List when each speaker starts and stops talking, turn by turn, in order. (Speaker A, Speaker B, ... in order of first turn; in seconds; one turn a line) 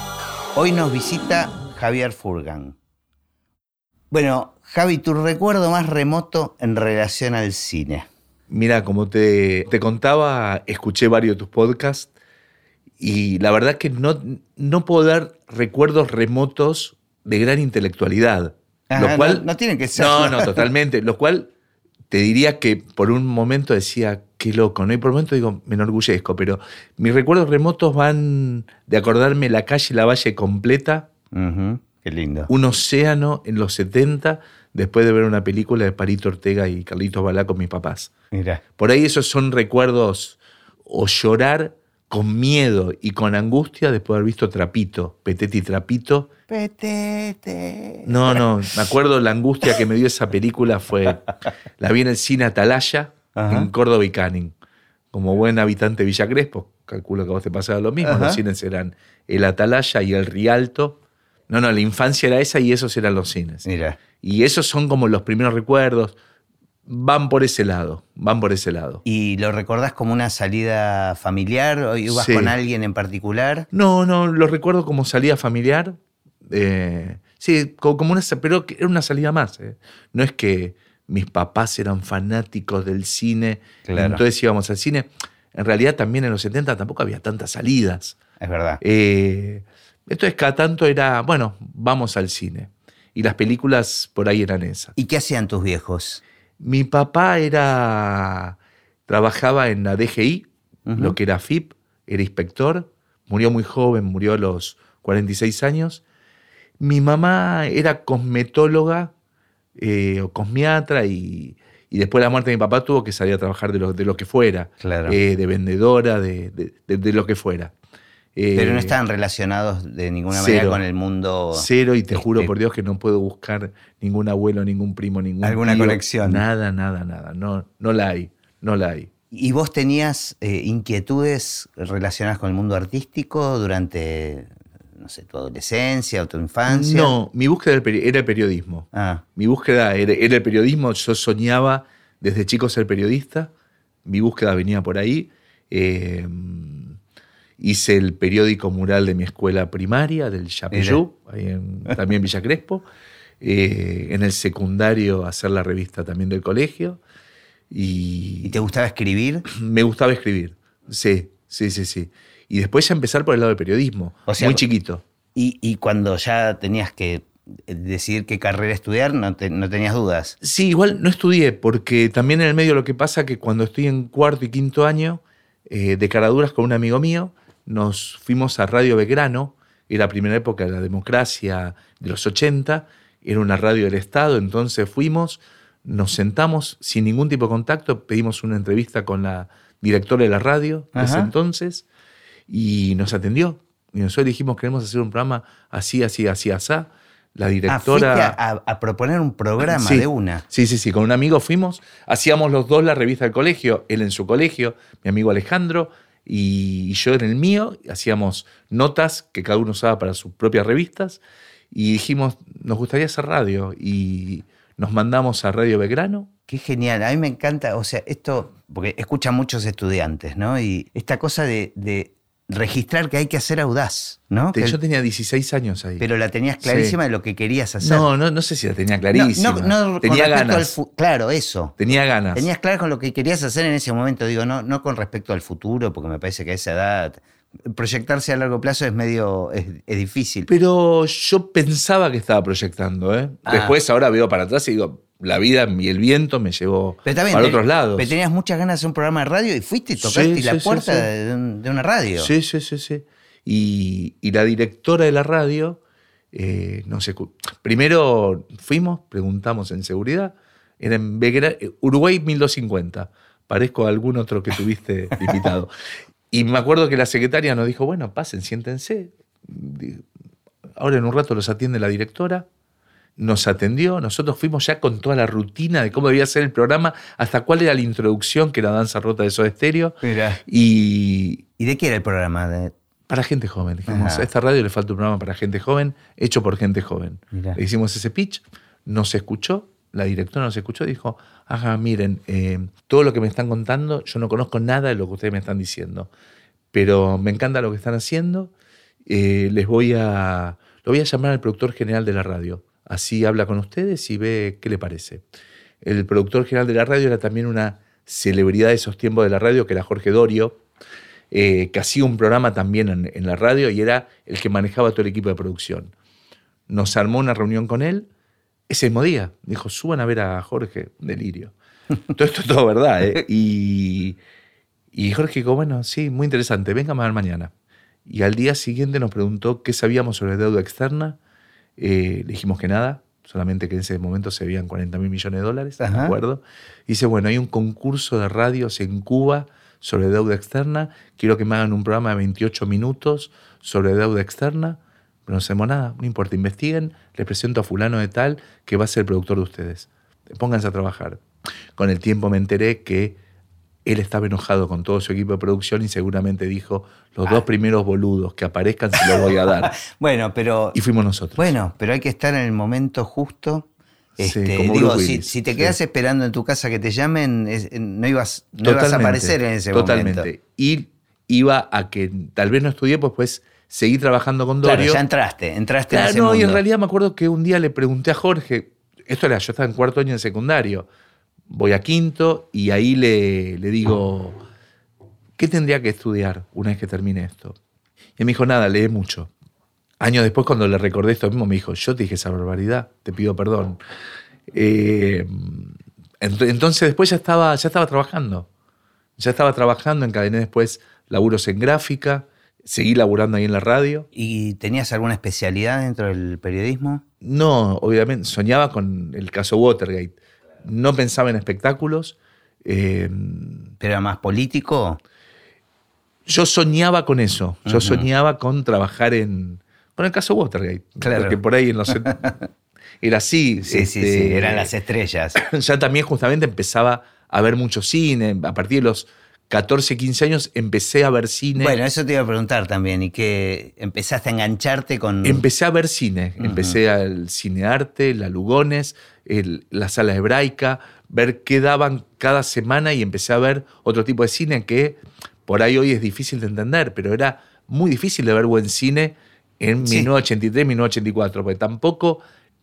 Speaker A: 0.6-2.8
Speaker A: 4.1-8.1
Speaker B: 8.5-12.1
Speaker B: 13.0-19.4
Speaker A: 18.9-20.6
Speaker B: 20.0-21.5
Speaker B: 22.1-31.1
Speaker A: 31.3-32.5
Speaker B: 32.5-38.1
Speaker A: 38.3-38.6
Speaker B: 38.8-46.3
Speaker A: 46.5-48.4
Speaker B: 48.1-51.2
Speaker B: 51.8-54.5
Speaker A: 53.4-53.7
Speaker B: 55.1-63.6
Speaker A: 58.0-58.4
Speaker A: 63.6-64.0
Speaker B: 64.2-66.2
Speaker B: 66.9-69.0
Speaker A: 69.0-73.7
Speaker B: 72.1-72.5
Speaker B: 73.7-88.2
Speaker A: 83.8-84.2
Speaker A: 88.4-88.8
Speaker B: 88.8-95.0
Speaker A: 95.0-96.2
Speaker B: 96.6-106.0
Speaker A: 100.9-101.2
Speaker B: 106.8-109.1
Speaker B: 109.8-117.7
Speaker A: 114.8-115.2
Speaker B: 118.4-119.0
Speaker A: 118.6-122.5
Speaker B: 120.3-120.8
Speaker B: 121.5-129.1
Speaker A: 125.4-126.4
Speaker A: 129.3-137.2
Speaker B: 136.7-143.5
Speaker A: 138.9-139.2
Speaker B: 144.1-147.0
Speaker B: 147.6-152.8
Speaker A: 150.7-151.0
Speaker B: 153.4-157.0
Speaker B: 157.7-158.6
Speaker A: 158.4-159.5
Speaker B: 159.5-165.0
Speaker A: 164.3-164.6
Speaker A: 165.3-170.4
Speaker B: 170.4-191.8
Speaker A: 190.9-191.3
Speaker B: 192.5-198.4
Speaker A: 197.7-200.4
Speaker B: 199.6-211.2
Speaker B: 211.7-216.3
Speaker A: 216.5-224.8
Speaker B: 224.6-226.0
Speaker A: 226.0-228.1
Speaker B: 226.6-227.0
Speaker B: 227.8-230.8
Speaker A: 229.1-231.8
Speaker B: 231.8-232.5
Speaker A: 232.3-240.5
Speaker B: 240.5-248.1
Speaker A: 243.5-243.8
Speaker A: 247.1-252.3
Speaker B: 250.0-251.1
Speaker B: 252.2-255.8
Speaker B: 256.3-265.7
Speaker B: 266.3-270.1
Speaker B: 270.8-272.5
Speaker B: 273.2-281.4
Speaker A: 280.0-280.4
Speaker A: 281.6-282.7
Speaker B: 283.1-296.1
Speaker A: 283.9-284.3
Speaker A: 287.3-287.6
Speaker B: 296.7-298.5
Speaker B: 299.1-305.2
Speaker B: 305.8-310.6
Speaker B: 311.3-315.9
Speaker B: 316.7-318.1
Speaker B: 318.7-321.5
Speaker B: 322.1-324.2
Speaker B: 324.9-327.5
Speaker B: 328.1-331.2
Speaker B: 331.8-351.2
Speaker A: 335.8-336.2
Speaker B: 351.8-353.2
Speaker B: 353.9-359.8
Speaker A: 358.9-360.8
Speaker B: 360.7-361.4
Speaker A: 361.4-363.7
Speaker A: 364.2-370.3
Speaker B: 364.2-365.8
Speaker B: 368.6-375.0
Speaker A: 374.6-376.6
Speaker B: 375.9-380.9
Speaker B: 381.5-384.4
Speaker B: 385.4-387.6
Speaker B: 388.2-389.3
Speaker B: 390.0-393.8
Speaker B: 394.5-398.5
Speaker B: 399.2-404.1
Speaker A: 404.1-407.0
Speaker B: 407.2-413.7
Speaker A: 413.8-415.0
Speaker B: 416.3-422.3
Speaker A: 417.7-418.1
Speaker A: 421.0-421.4
Speaker A: 421.9-422.4
Speaker B: 423.0-424.7
Speaker A: 423.6-425.4
Speaker B: 425.4-431.8
Speaker A: 431.6-435.4
Speaker B: 435.2-452.2
Speaker A: 436.4-436.8
Speaker A: 449.8-450.1